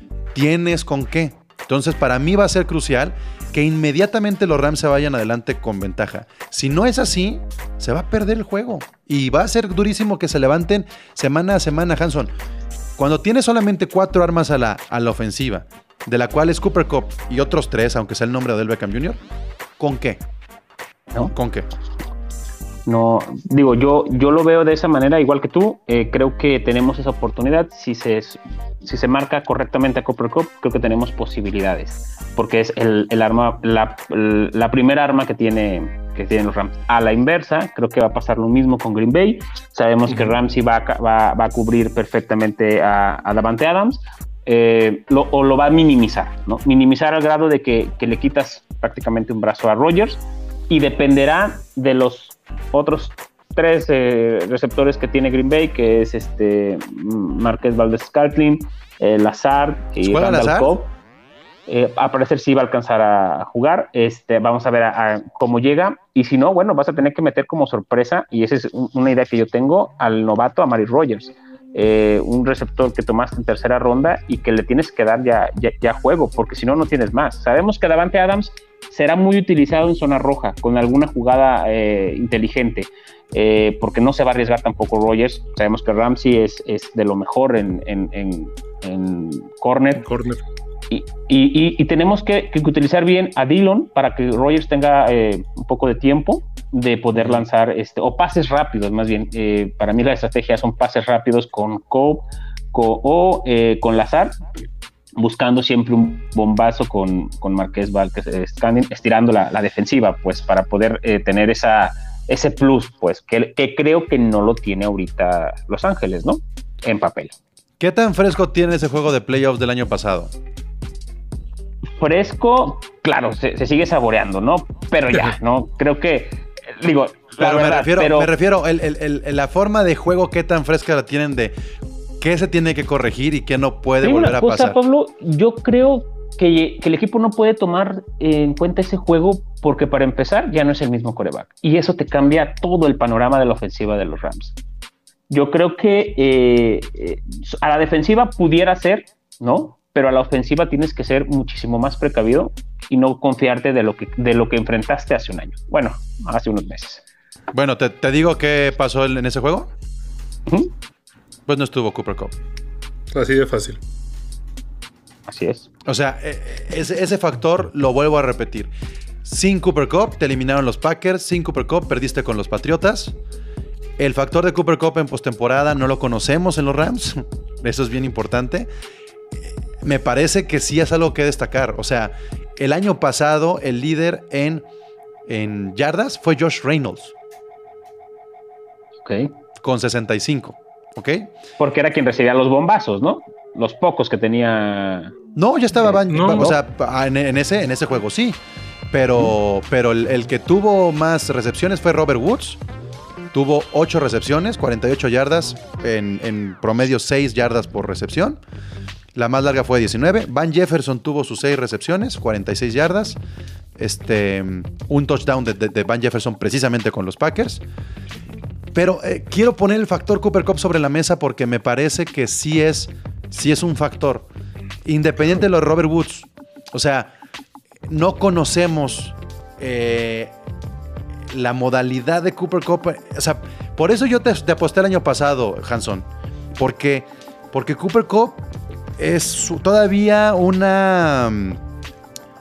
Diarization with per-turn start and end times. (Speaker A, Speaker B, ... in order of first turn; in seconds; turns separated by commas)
Speaker A: 0.3-12.3, Speaker A: 13.0-19.2, Speaker A: 19.8-20.2, Speaker A: 21.3-21.7, Speaker B: 22.9-60.9, Speaker A: 60.0-60.7, Speaker B: 61.7-90.0, Speaker C: 90.0-90.4, Speaker B: 90.9-104.4, Speaker C: 97.2-97.4, Speaker B: 105.2-117.3, Speaker A: 117.8-120.3, Speaker B: 122.0-128.3, Speaker A: 127.4-131.5, Speaker A: 132.2-134.8, Speaker B: 134.0-144.5, Speaker B: 145.3-157.0, Speaker A: 157.5-159.7, Speaker A: 161.5-162.3, Speaker C: 163.1-163.8, Speaker B: 165.3-165.7, Speaker A: 165.8-168.7, Speaker A: 169.2-173.2, Speaker A: 174.0-178.7, Speaker A: 179.4-184.6, Speaker A: 185.3-187.1, Speaker B: 189.0-189.3, Speaker A: 189.6-191.3, Speaker B: 191.6-195.1, Speaker A: 195.3-198.4, Speaker B: 195.8-196.6, Speaker C: 196.1-196.5, Speaker A: 198.9-202.6, Speaker A: 203.3-208.4, Speaker A: 209.1-213.2, Speaker A: 213.8-217.6, Speaker A: 218.7-224.3, Speaker A: 224.8-227.1, Speaker A: 227.9-230.3, Speaker A: 231.3-238.4, Speaker A: 239.0-241.6